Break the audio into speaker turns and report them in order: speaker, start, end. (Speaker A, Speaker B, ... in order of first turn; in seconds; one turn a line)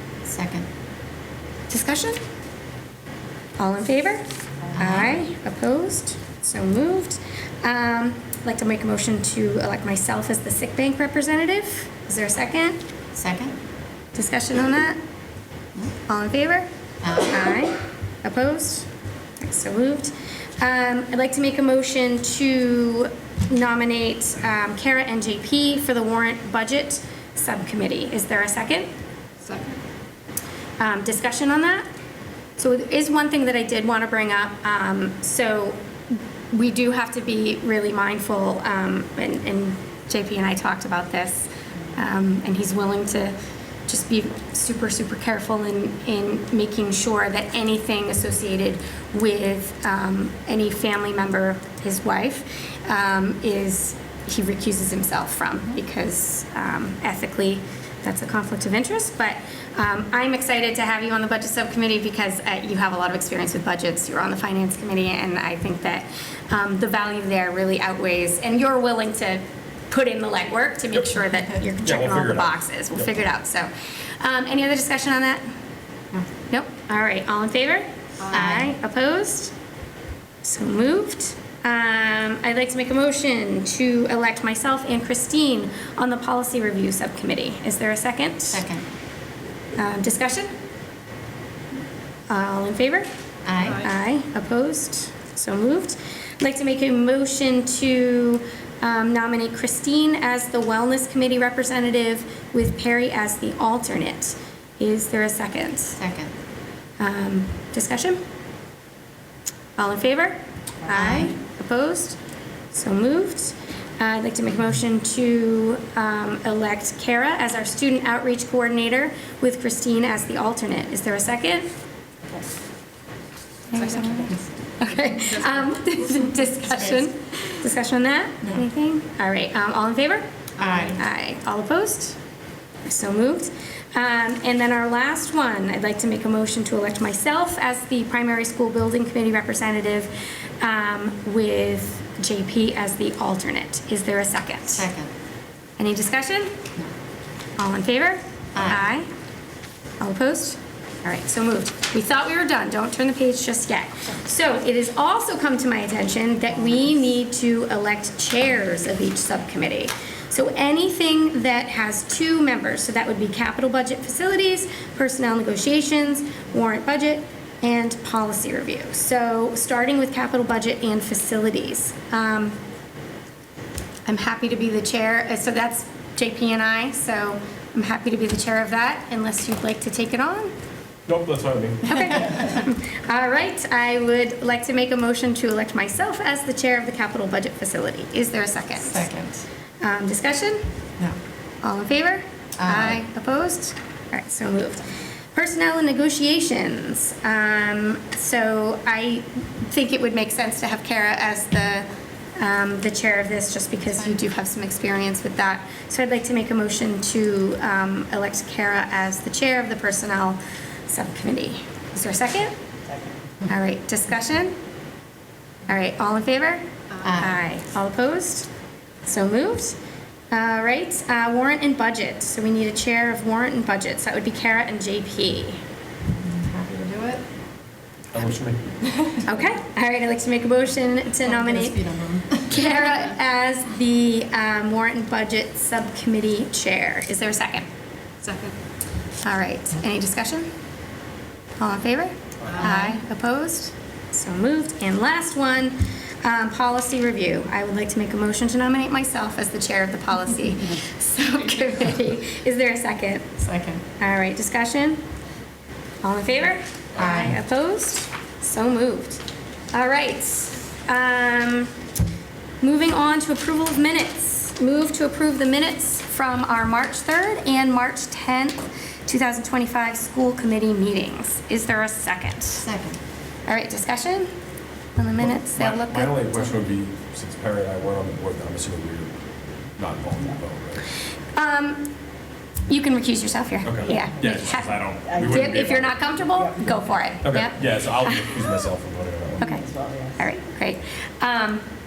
Speaker A: 0.2-0.7
Speaker B: 1.7-2.2
Speaker B: 3.6-4.2
Speaker A: 4.7-5.2
Speaker B: 4.8-12.8
Speaker A: 13.1-13.5
Speaker B: 14.1-15.0
Speaker B: 16.1-18.9
Speaker A: 17.0-17.6
Speaker B: 19.4-28.9
Speaker B: 30.8-31.9
Speaker B: 32.6-43.4
Speaker B: 43.9-75.5
Speaker C: 71.8-73.0
Speaker B: 76.5-79.5
Speaker A: 78.3-78.7
Speaker B: 80.4-88.6
Speaker A: 88.5-88.8
Speaker B: 89.8-90.5
Speaker B: 92.3-93.1
Speaker A: 93.5-93.9
Speaker B: 93.6-106.0
Speaker A: 106.0-106.3
Speaker B: 107.0-108.2
Speaker B: 109.8-112.2
Speaker A: 110.9-111.3
Speaker B: 112.7-121.7
Speaker B: 123.7-132.2
Speaker A: 130.6-131.0
Speaker B: 132.8-144.9
Speaker A: 144.7-145.1
Speaker B: 145.8-146.6
Speaker B: 147.6-149.1
Speaker A: 148.6-148.8
Speaker B: 150.0-172.6
Speaker B: 174.1-180.5
Speaker C: 181.1-181.8
Speaker B: 181.8-189.1
Speaker A: 188.8-189.4
Speaker B: 189.8-190.7
Speaker B: 191.6-212.5
Speaker A: 192.6-193.0
Speaker B: 213.5-214.6
Speaker B: 215.7-218.5
Speaker A: 217.0-217.4
Speaker B: 219.0-219.8
Speaker B: 220.3-225.6
Speaker A: 226.2-227.2
Speaker C: 228.1-228.6
Speaker A: 228.8-229.3
Speaker B: 229.2-231.8
Speaker A: 231.2-232.9
Speaker B: 232.4-237.7
Speaker B: 239.2-240.5
Speaker B: 241.6-253.4
Speaker A: 242.6-242.9
Speaker A: 253.4-253.8
Speaker B: 254.0-255.0
Speaker B: 256.0-259.2
Speaker A: 257.0-257.4
Speaker B: 259.7-261.7
Speaker B: 262.6-272.6
Speaker A: 272.6-273.0
Speaker B: 273.5-274.3
Speaker B: 274.9-276.5
Speaker C: 275.6-279.1
Speaker C: 279.8-280.8
Speaker B: 281.4-281.9
Speaker B: 282.7-288.4
Speaker C: 283.6-285.9
Speaker C: 287.2-289.6
Speaker B: 289.4-291.6